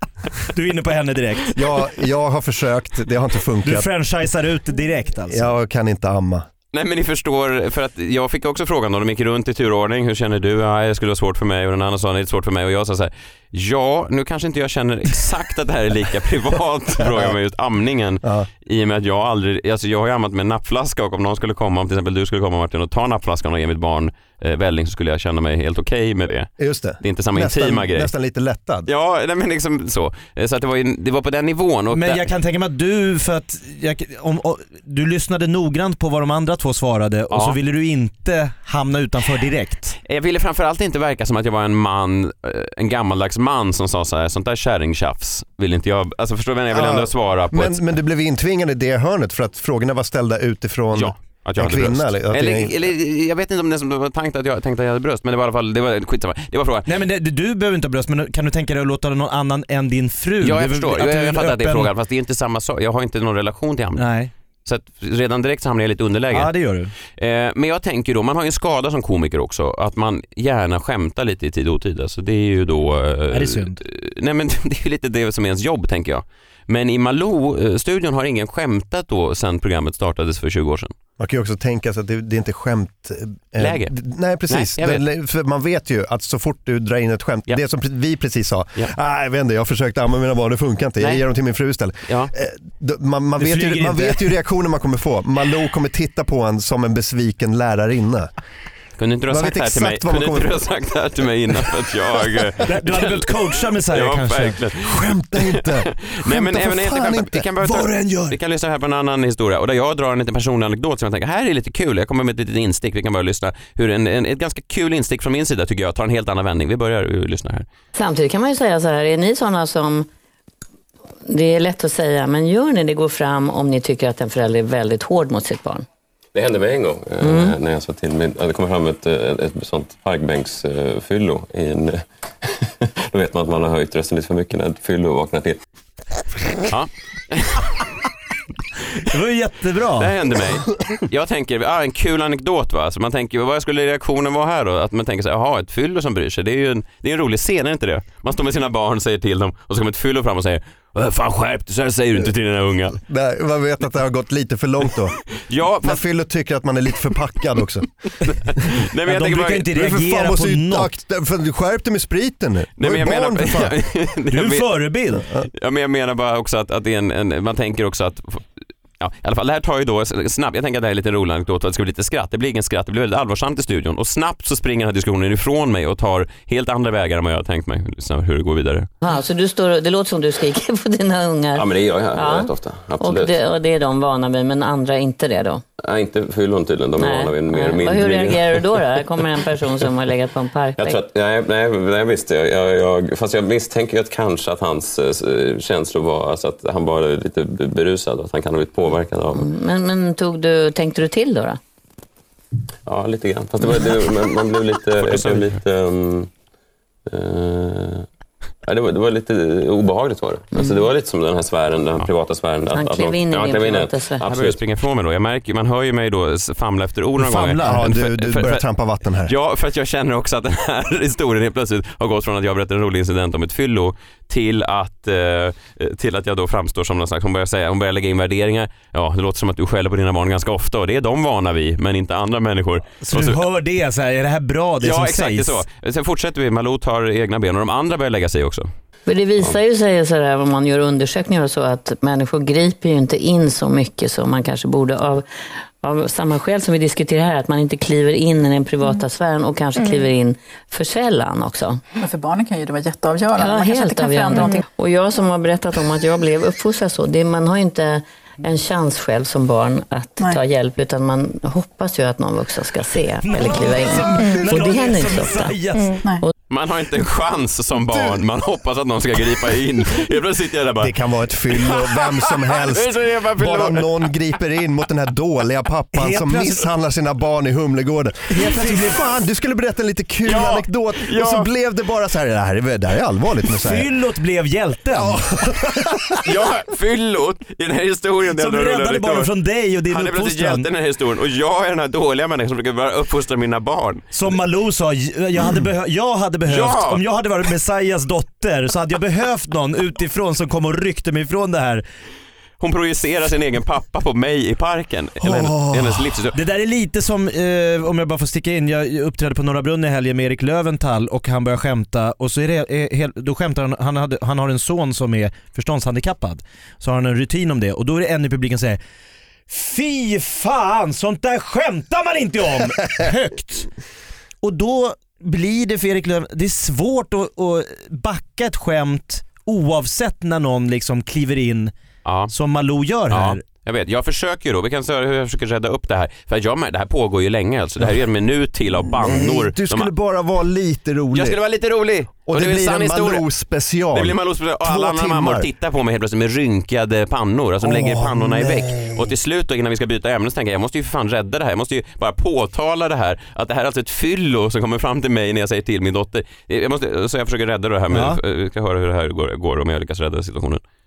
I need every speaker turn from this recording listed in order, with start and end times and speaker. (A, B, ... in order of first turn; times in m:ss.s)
0:00.5-0:01.5 A
0:01.6-0:03.9 B
0:03.6-0:05.5 A
0:05.3-0:06.5 B
0:06.7-0:28.1 C
0:17.0-0:17.3 B
0:26.6-0:28.9 B
0:28.9-0:32.2 C
0:31.9-0:40.0 A
0:37.3-0:37.6 C
0:40.0-0:47.8 C
0:46.7-0:52.7 B
0:50.9-0:56.9 C
0:56.9-1:01.9 A
1:00.4-1:04.1 C
1:04.0-1:04.3 A
1:04.7-1:06.6 C
1:06.3-1:06.9 A
1:07.2-1:20.9 C
1:13.3-1:13.8 A
1:21.2-1:38.3 B
1:23.6-1:23.9 C
1:24.5-1:25.0 C
1:33.4-1:34.3 A
1:39.0-1:43.3 C
1:39.3-1:40.7 B
1:42.7-1:44.6 A
1:43.9-1:57.7 C
1:44.8-1:47.4 B
1:47.6-1:48.4 A
1:58.0-2:00.1 D
2:01.3-2:05.8 D
2:06.3-2:15.6 E
2:07.2-2:07.6 D
2:16.7-2:17.8 C
2:19.0-2:20.1 A
2:20.0-2:33.0 C
2:33.0-2:35.2 B
2:35.5-2:36.0 C
2:35.8-2:37.9 B
2:38.2-2:39.9 C
2:39.1-2:40.9 A
2:39.8-2:43.8 B
2:42.8-2:44.8 C
2:44.3-2:45.2 A
2:45.5-2:48.5 C
2:49.0-2:58.9 C
2:59.0-3:05.6 D
3:01.6-3:03.4 E
3:05.8-3:08.8 E
3:07.0-3:11.0 D
3:10.8-3:19.5 E
3:19.4-3:21.6 D
3:22.9-3:26.3 E
3:25.0-3:25.6 C
3:27.1-3:28.1 E
3:28.6-3:34.6 E
3:32.8-3:34.2 D
3:34.2-3:38.6 C
3:37.2-3:37.9 A
3:37.6-3:39.3 B
3:39.2-3:53.4 C
3:53.0-3:55.6 A
3:54.8-3:58.7 C
3:59.1-4:05.3 D
4:05.8-4:11.8 D
4:12.0-4:14.6 F
4:13.4-4:25.6 D
4:23.2-4:26.0 A
4:26.5-4:30.9 C
4:30.8-4:43.9 B
4:31.5-4:34.2 C
4:35.9-4:36.7 A
4:38.3-4:39.0 A
4:40.2-4:41.5 C
4:43.6-4:45.2 A
4:44.9-4:46.2 B
4:46.2-4:49.3 C
4:48.3-4:50.7 A
4:49.9-4:54.1 C
4:54.1-5:01.8 A
4:56.5-4:57.0 C
5:02.6-5:06.4 C
5:05.2-5:06.0 B
5:06.3-5:18.8 A
5:19.5-5:23.7 A
5:24.4-5:31.7 A
5:32.0-5:32.3 C
5:32.3-5:33.4 A
5:33.1-5:39.9 C
5:38.8-5:41.4 B
5:41.1-5:43.2 C
5:42.3-5:45.5 B
5:43.9-6:00.6 C
5:47.6-5:49.0 B
5:57.9-5:58.2 A